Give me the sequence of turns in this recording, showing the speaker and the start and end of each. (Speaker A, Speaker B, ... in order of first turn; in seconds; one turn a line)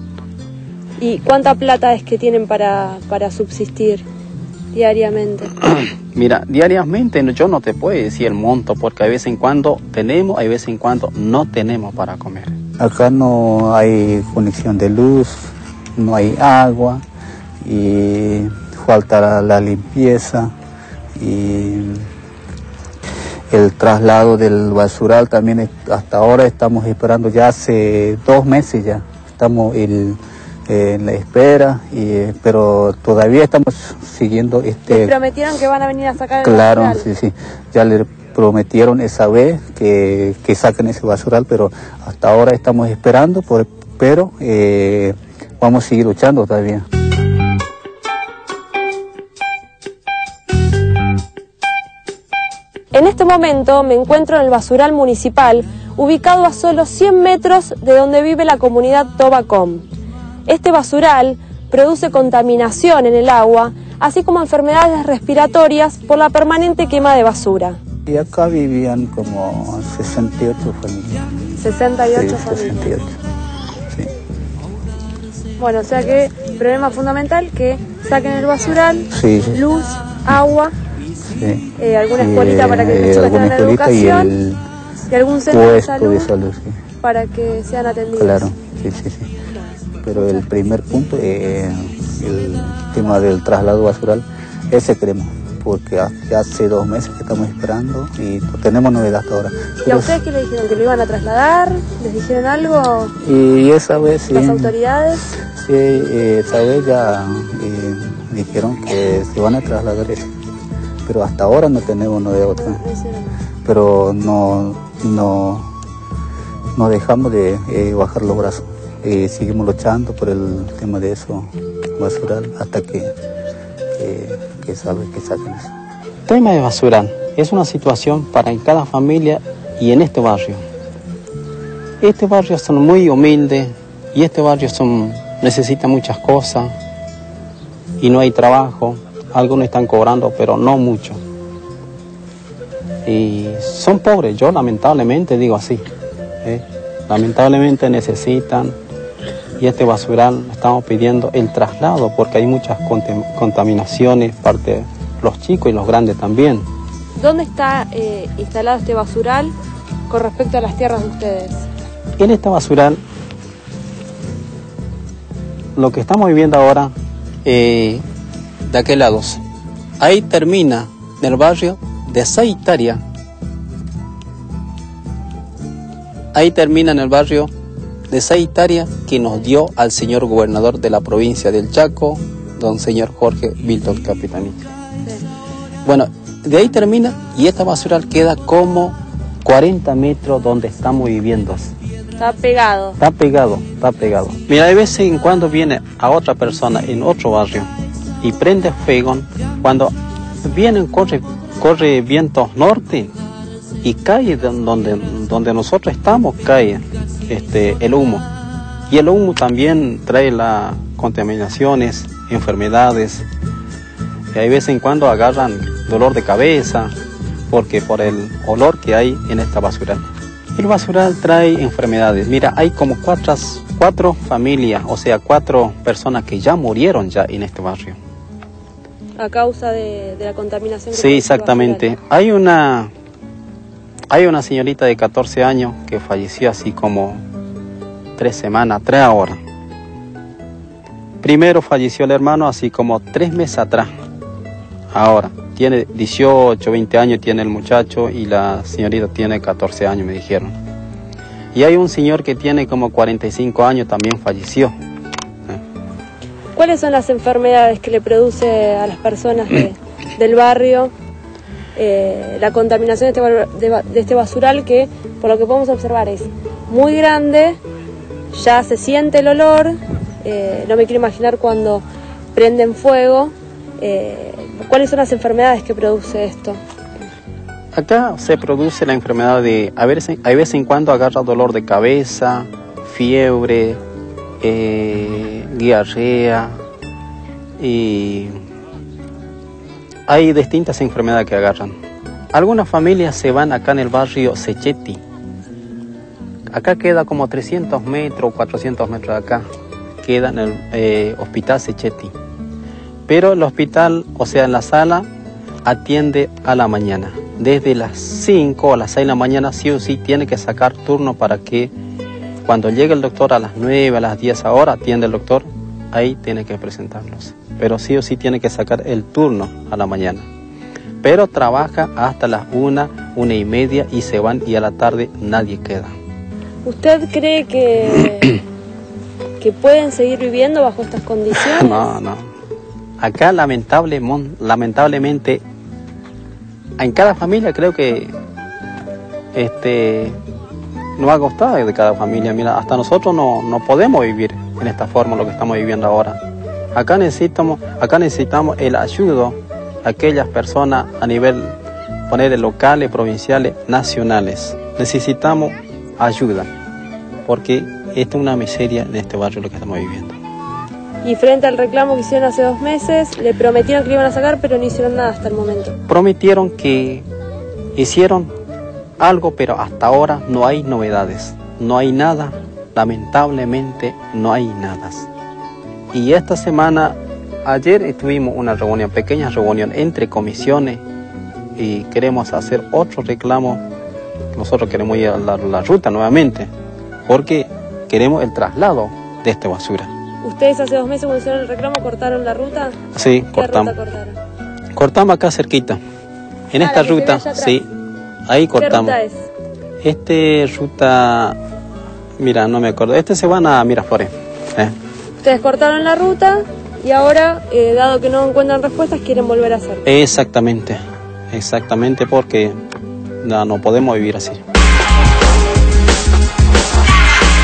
Speaker A: 1.0-4.0
Speaker A: 4.7-5.5
Speaker B: 5.6-12.6
Speaker C: 12.8-17.0
Speaker C: 17.6-20.5
Speaker C: 21.2-22.1
Speaker C: 23.5-35.1
Speaker A: 34.9-37.1
Speaker C: 36.4-46.9
Speaker A: 52.9-59.9
Speaker A: 60.5-67.8
Speaker C: 68.1-71.3
Speaker A: 71.6-72.9
Speaker C: 72.1-73.2
Speaker A: 75.6-80.7
Speaker C: 79.1-79.6
Speaker C: 81.3-84.6
Speaker A: 81.8-84.3
Speaker A: 85.1-86.3
Speaker C: 85.5-86.8
Speaker A: 87.0-88.5
Speaker C: 88.2-89.3
Speaker C: 90.0-100.1
Speaker A: 90.2-90.4
Speaker A: 99.8-103.1
Speaker C: 103.2-104.7
Speaker A: 104.3-105.3
Speaker C: 105.5-110.3
Speaker C: 111.1-112.8
Speaker A: 112.5-113.3
Speaker C: 113.7-115.7
Speaker C: 116.8-123.1
Speaker C: 124.0-125.7
Speaker B: 126.3-130.6
Speaker B: 132.0-136.7
Speaker B: 138.0-141.2
Speaker B: 143.1-145.8
Speaker B: 146.4-148.8
Speaker B: 149.6-156.7
Speaker A: 157.2-159.5
Speaker A: 160.1-161.7
Speaker B: 162.2-163.0
Speaker B: 165.8-166.9
Speaker B: 167.4-168.0
Speaker B: 168.7-169.4
Speaker B: 170.0-173.0
Speaker B: 176.3-177.5
Speaker B: 178.1-184.7
Speaker B: 185.8-191.7
Speaker A: 192.2-193.0
Speaker B: 193.0-197.7
Speaker B: 198.2-203.1
Speaker B: 203.8-208.3
Speaker B: 208.9-213.3
Speaker B: 214.3-216.9
Speaker B: 217.5-228.0
Speaker A: 229.2-231.9
Speaker B: 230.9-232.9
Speaker B: 234.1-237.2
Speaker B: 238.2-239.4
Speaker B: 241.2-243.9
Speaker B: 244.9-250.5
Speaker B: 251.6-254.7
Speaker A: 256.5-260.9
Speaker A: 261.8-267.6
Speaker A: 268.3-271.8
Speaker A: 272.3-276.6
Speaker B: 277.7-283.8
Speaker B: 284.4-286.5
Speaker B: 287.6-288.3
Speaker B: 290.1-291.8
Speaker B: 292.3-295.0
Speaker B: 296.5-299.4
Speaker B: 300.0-302.1
Speaker B: 303.1-305.1
Speaker B: 305.6-311.7
Speaker B: 312.4-320.3
Speaker B: 321.0-325.9
Speaker A: 326.6-328.4
Speaker A: 329.4-331.9
Speaker B: 331.4-332.2
Speaker B: 333.0-335.4
Speaker B: 336.8-338.1
Speaker B: 339.3-340.2
Speaker B: 341.0-346.2
Speaker B: 346.8-351.6
Speaker B: 352.1-356.5
Speaker B: 357.3-360.1
Speaker A: 361.0-365.8
Speaker B: 365.9-367.1
Speaker B: 367.8-368.3
Speaker B: 369.0-375.1
Speaker B: 375.9-380.8
Speaker B: 381.6-383.6
Speaker B: 384.3-386.5
Speaker B: 387.1-389.9
Speaker A: 390.2-394.2
Speaker B: 392.9-393.7
Speaker B: 394.8-395.8
Speaker B: 396.5-397.6
Speaker A: 396.6-397.6
Speaker B: 398.3-399.0
Speaker A: 398.5-399.3
Speaker B: 399.8-401.4
Speaker B: 402.2-404.8
Speaker A: 405.2-409.9
Speaker B: 409.9-410.8
Speaker B: 411.3-412.6
Speaker B: 413.2-414.4